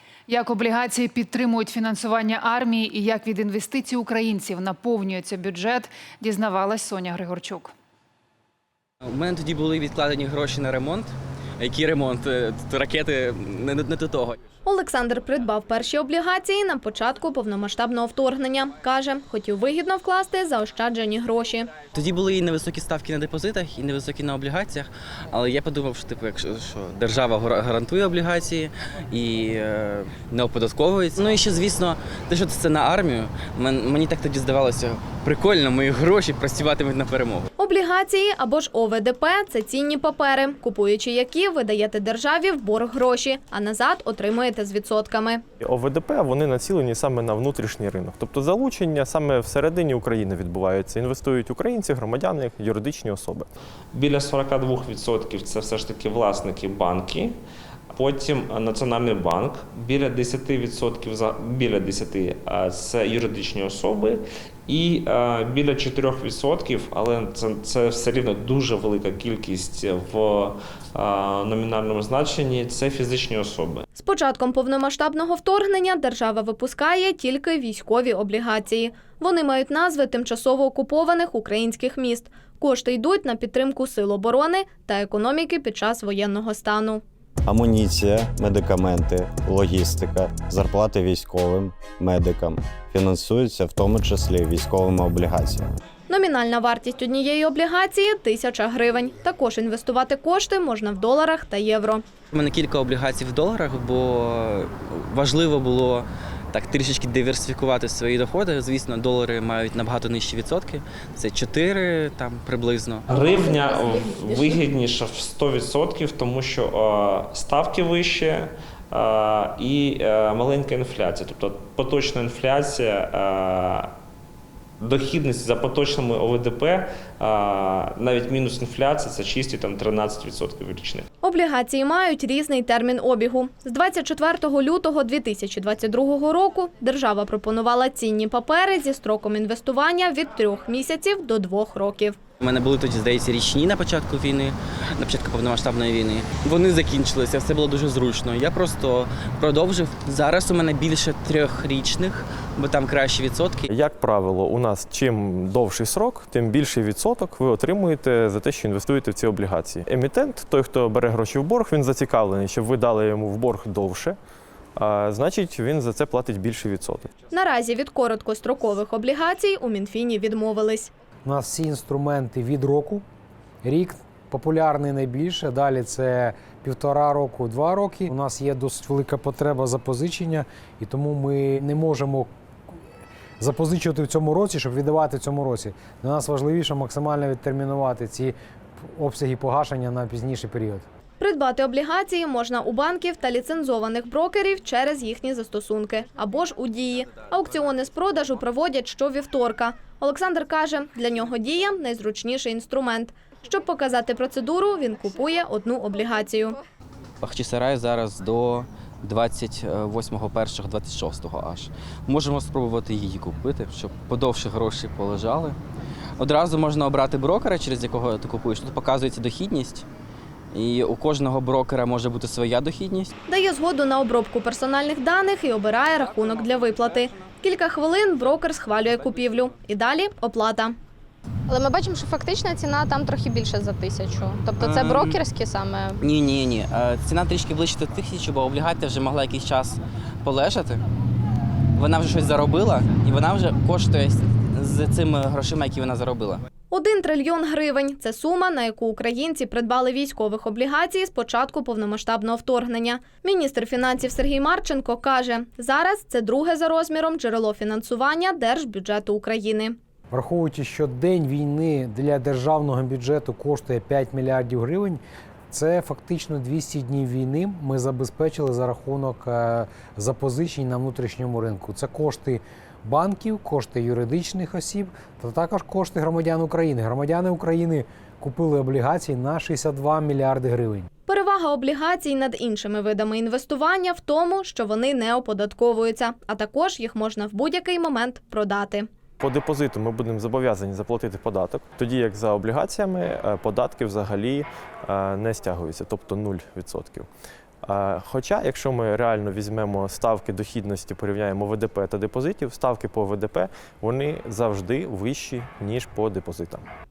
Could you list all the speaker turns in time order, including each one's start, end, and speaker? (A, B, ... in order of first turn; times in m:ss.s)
0:00.3-0:07.7 A
0:09.0-0:14.4 B
0:14.6-0:21.7 C
0:21.9-0:37.5 B
0:37.6-0:45.4 C
0:45.6-0:53.5 D
0:53.9-0:57.3 E
0:57.9-1:13.8 E
1:14.0-1:27.0 C
1:27.4-1:35.7 F
1:36.1-1:42.0 C
1:42.3-1:53.1 B
1:53.1-2:03.9 E
1:53.2-1:54.3 G
2:04.8-2:11.0 E
2:11.2-2:22.2 C
2:22.4-2:33.7 B
2:33.7-2:44.2 D
2:44.8-2:47.1 D
2:47.3-2:50.9 C
2:51.2-2:53.0 H
2:53.6-3:02.3 H
3:03.4-3:08.3 H
3:08.9-3:10.8 H
3:11.2-3:26.6 C
3:27.2-3:35.6 B
3:36.2-3:39.8 B
3:40.5-3:43.1 B
3:43.3-3:50.8 C
3:51.5-3:56.0 G
3:54.6-3:55.2 B
3:56.0-4:00.8 B
4:01.7-4:06.4 B
4:06.7-4:19.8 C
4:20.1-4:40.9 H
4:41.1-4:48.9 C
4:49.2-4:57.1 D
4:57.6-5:06.6 D